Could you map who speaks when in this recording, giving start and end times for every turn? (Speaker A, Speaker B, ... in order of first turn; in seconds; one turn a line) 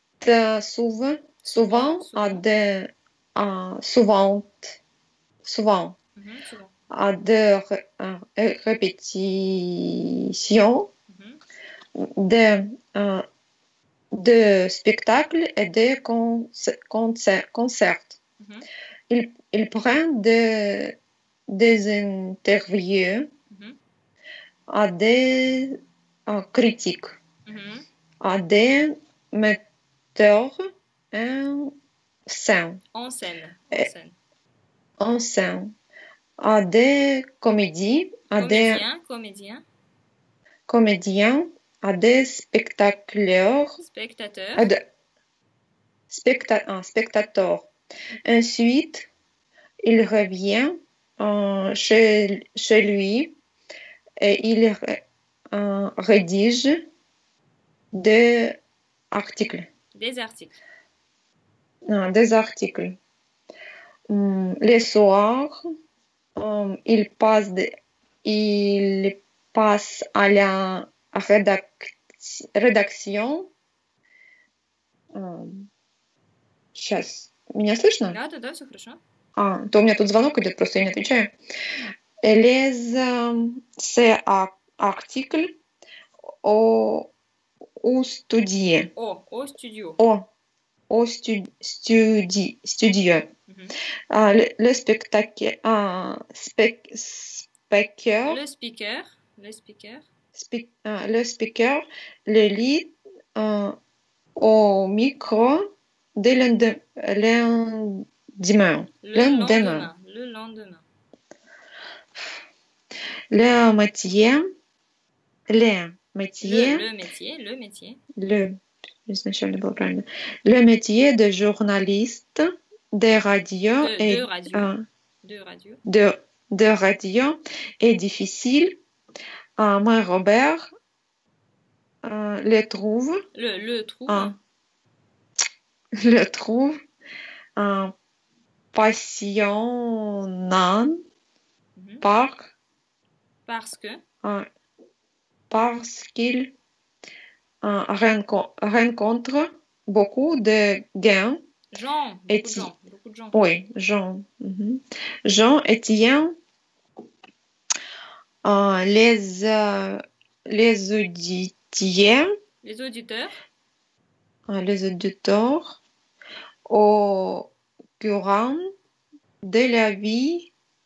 Speaker A: 0.2-4.8
Speaker B: 1.9-2.4
Speaker A: 5.4-6.0
Speaker B: 6.2-6.7
Speaker A: 6.9-10.9
Speaker B: 11.1-11.4
Speaker A: 11.9-13.2
Speaker A: 14.1-18.2
Speaker B: 18.4-18.6
Speaker A: 19.1-21.0
Speaker A: 21.5-23.3
Speaker B: 23.5-23.8
Speaker A: 24.7-27.2
Speaker B: 27.4-27.8
Speaker A: 28.2-29.6
Speaker A: 30.1-31.8
Speaker A: 32.3-32.8
Speaker B: 32.9-34.1
Speaker A: 35.0-35.7
Speaker A: 36.4-38.8
Speaker B: 38.4-39.6
Speaker A: 40.7-43.8
Speaker B: 43.8-44.6
Speaker A: 44.5-44.8
Speaker A: 46.1-47.7
Speaker A: 48.2-49.1
Speaker A: 49.8-53.4
Speaker A: 54.2-56.9
Speaker A: 57.9-58.6
Speaker A: 59.1-59.7
Speaker B: 59.9-60.6
Speaker A: 61.9-63.0
Speaker A: 64.1-65.6
Speaker A: 66.4-73.5
Speaker A: 75.1-75.7
Speaker A: 76.7-78.2
Speaker B: 78.1-79.0
Speaker A: 79.3-81.3
Speaker A: 82.2-85.5
Speaker A: 86.4-87.1
Speaker A: 87.8-88.9
Speaker B: 89.0-90.0
Speaker A: 90.0-90.3
Speaker A: 90.9-93.3
Speaker B: 93.5-93.7
Speaker A: 94.1-98.4
Speaker B: 98.2-100.0
Speaker A: 100.3-103.8
Speaker A: 104.3-109.9
Speaker B: 109.0-110.8
Speaker A: 113.3-114.4
Speaker A: 115.5-116.9
Speaker B: 116.4-118.0
Speaker A: 118.2-124.8
Speaker B: 123.8-125.8
Speaker A: 125.8-128.8
Speaker A: 129.6-130.7
Speaker A: 132.0-133.2
Speaker B: 133.3-134.3
Speaker A: 134.1-134.3
Speaker A: 135.9-136.8
Speaker A: 137.6-137.9
Speaker A: 138.7-141.0
Speaker B: 141.8-142.0
Speaker A: 142.0-142.5
Speaker B: 143.4-144.0
Speaker A: 145.5-146.5
Speaker A: 147.6-151.4
Speaker B: 151.7-153.4
Speaker A: 152.3-152.7
Speaker A: 153.3-156.3
Speaker A: 158.4-162.3
Speaker B: 162.6-163.3
Speaker A: 164.5-165.8
Speaker A: 166.7-168.6
Speaker A: 169.4-170.5